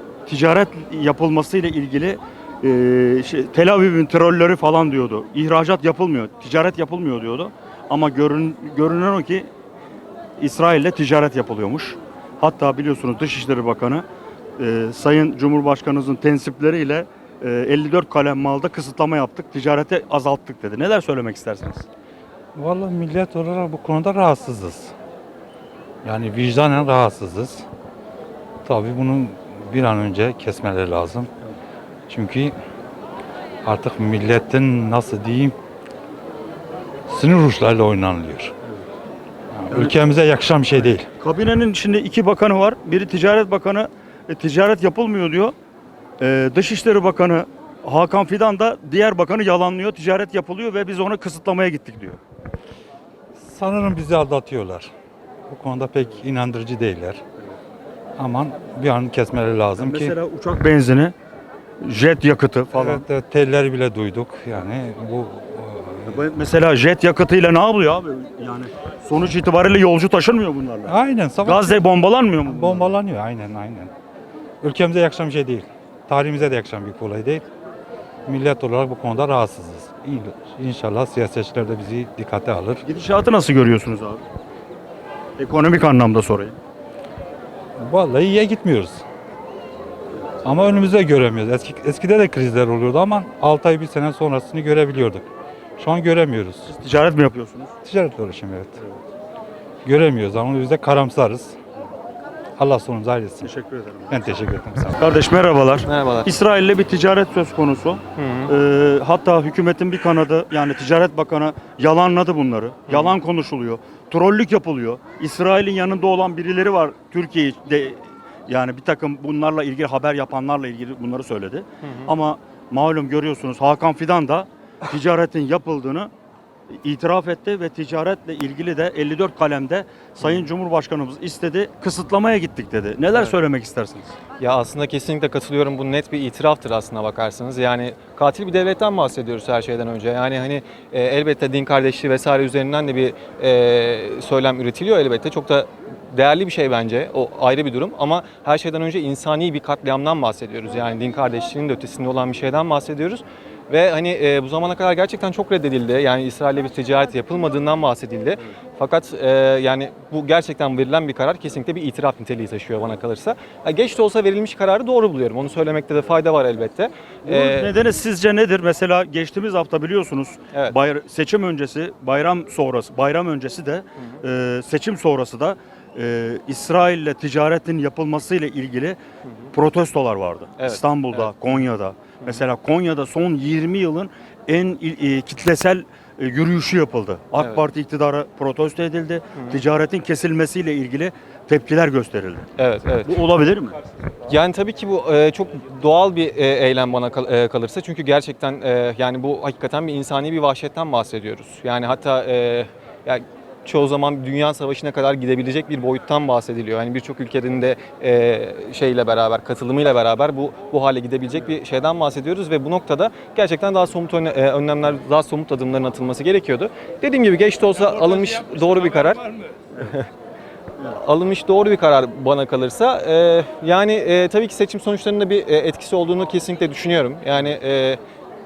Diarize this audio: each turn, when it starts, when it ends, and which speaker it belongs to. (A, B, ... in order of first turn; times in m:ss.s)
0:00.3-0:09.5 A
0:10.4-0:14.0 A
0:14.6-0:21.9 A
0:22.5-0:24.9 B
0:26.0-0:27.6 B
0:28.6-0:31.3 B
0:32.1-0:32.5 B
0:33.6-0:35.5 B
0:37.1-0:38.5 B
0:39.5-0:41.1 B
0:39.7-0:40.0 A
0:40.8-0:45.5 A
0:46.2-0:52.2 A
0:53.4-0:54.9 B
0:55.5-0:57.2 B
0:58.2-1:00.2 B
0:59.8-1:01.1 A
1:01.8-1:03.0 A
1:02.7-1:06.2 B
1:06.1-1:13.0 A
1:10.9-1:11.9 B
1:12.4-1:13.9 B
1:14.6-1:17.4 B
1:18.2-1:22.8 B
1:22.8-1:24.2 A
1:25.4-1:26.6 A
1:27.8-1:29.0 B
1:30.4-1:36.7 B
1:36.6-1:37.7 A
1:37.8-1:38.8 B
1:39.8-1:41.6 B
1:42.6-1:43.5 B
1:43.4-2:06.1 A
1:44.1-1:45.0 B
1:45.9-1:46.3 C
1:48.2-1:48.5 C
1:52.9-1:53.2 C
2:01.8-2:02.1 C
2:06.7-2:14.2 A
2:14.4-2:47.7 C
2:47.2-2:59.0 A
2:59.2-2:59.5 C
2:59.5-3:12.5 A
3:00.6-3:01.6 C
3:09.4-3:09.6 C
3:12.6-3:13.1 C
3:13.0-3:13.7 A
3:14.3-3:39.3 C
3:39.8-3:40.1 C
3:41.0-3:48.0 C